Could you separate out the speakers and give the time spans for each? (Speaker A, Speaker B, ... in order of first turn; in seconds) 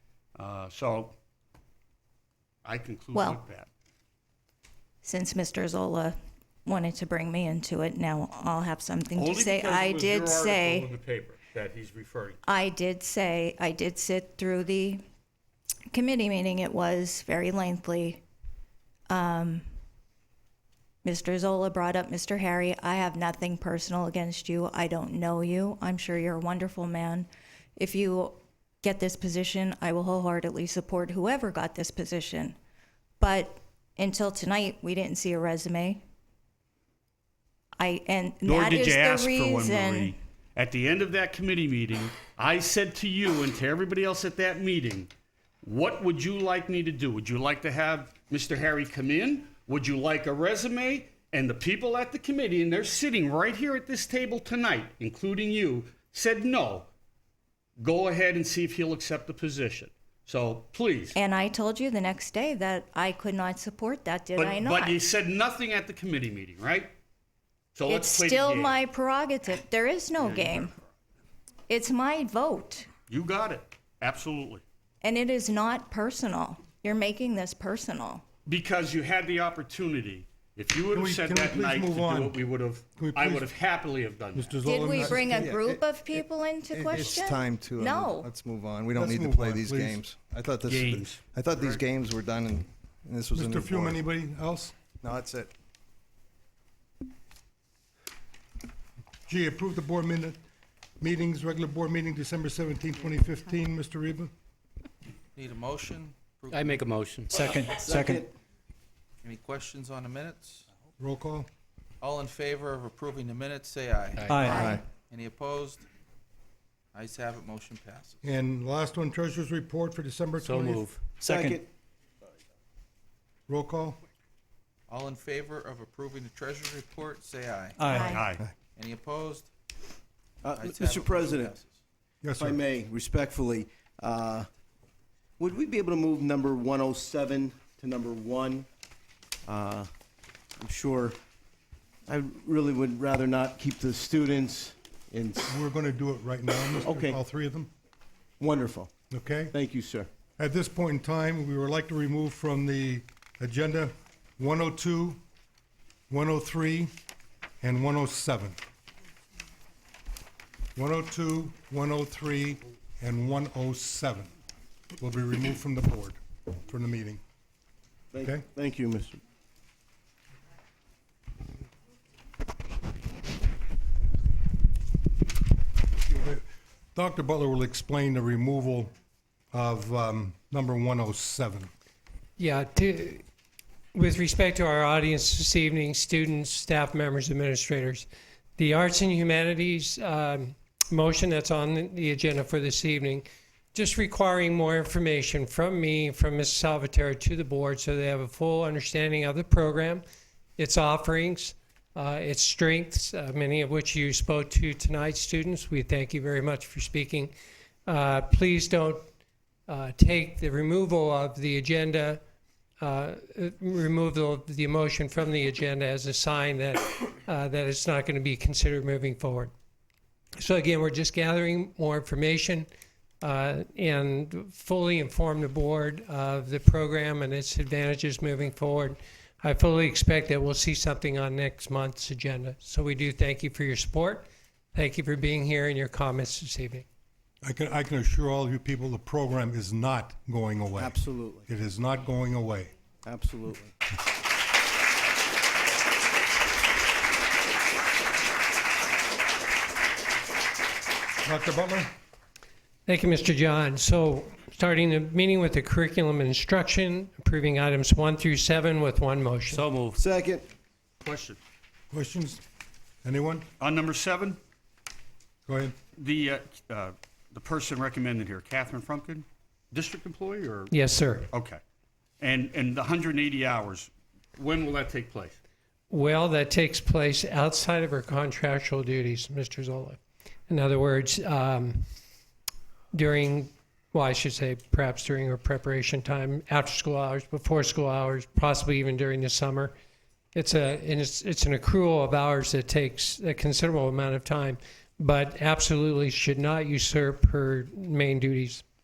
Speaker A: 0.4-1.1, 2.6-3.7, 9.2-12.4, 38.5-45.1, 45.6-56.9, 57.8-61.2, 64.4-66.9, 67.8-68.8, 70.2-70.8, 73.1-74.6, 78.5-84.6, 90.7-91.2, 128.1-128.5, 261.0-261.4, 263.6-264.4, 265.9-270.7, 271.3-271.6, 272.2-275.4
Speaker B: 3.1-3.4, 5.0-6.2, 6.7-10.9, 12.5-15.0, 15.9-18.2, 19.1-19.6, 21.0-32.6, 33.2-36.0, 37.8-40.2, 61.1-65.0, 67.9-70.7, 71.7-72.9, 75.0-78.2, 84.7-88.3, 114.4-114.8, 127.9-128.3
Speaker C: 80.9-82.4, 83.0-83.4, 84.4-85.5, 89.0-90.0, 93.4-94.7, 99.3-100.4, 101.0-104.3, 111.2-111.5, 119.2-120.8, 132.2-132.5, 145.7-147.7, 150.4-155.2, 156.1-156.9, 157.6-158.6, 160.8-164.2, 165.0-167.2, 176.1-176.4, 176.9-178.9, 179.5-181.7, 237.5-240.8, 241.6-242.7, 251.3-251.8, 261.9-262.4
Speaker D: 81.3-82.2, 84.8-85.3, 105.3-106.9, 109.2-111.3, 112.0-115.8, 116.9-120.8, 123.5-123.9, 124.9-127.9, 128.7-129.5, 130.5-131.8, 145.6-147.5
Speaker E: 85.2-85.8, 86.7-94.0, 95.0-95.5, 114.5-114.8
Speaker F: 106.5-108.2, 114.2-114.5, 120.4-121.6, 127.8-128.1, 259.5-260.0
Speaker G: 107.3-108.3, 121.2-121.7, 130.4-131.6, 132.4-134.5, 135.4-138.7, 139.5-139.9, 140.6-141.2, 142.1-145.6, 146.8-147.2, 148.4-148.9, 149.5-150.1, 168.1-169.2, 240.8-241.5, 243.0-243.7, 259.9-260.4
Speaker H: 182.4-183.2, 183.9-200.0, 200.6-207.3, 207.9-209.0, 209.7-212.2, 212.8-219.5, 220.4-222.7, 223.2-236.8, 252.9-259.6, 270.7-271.3, 275.9-281.8, 282.9-289.7, 290.4-298.6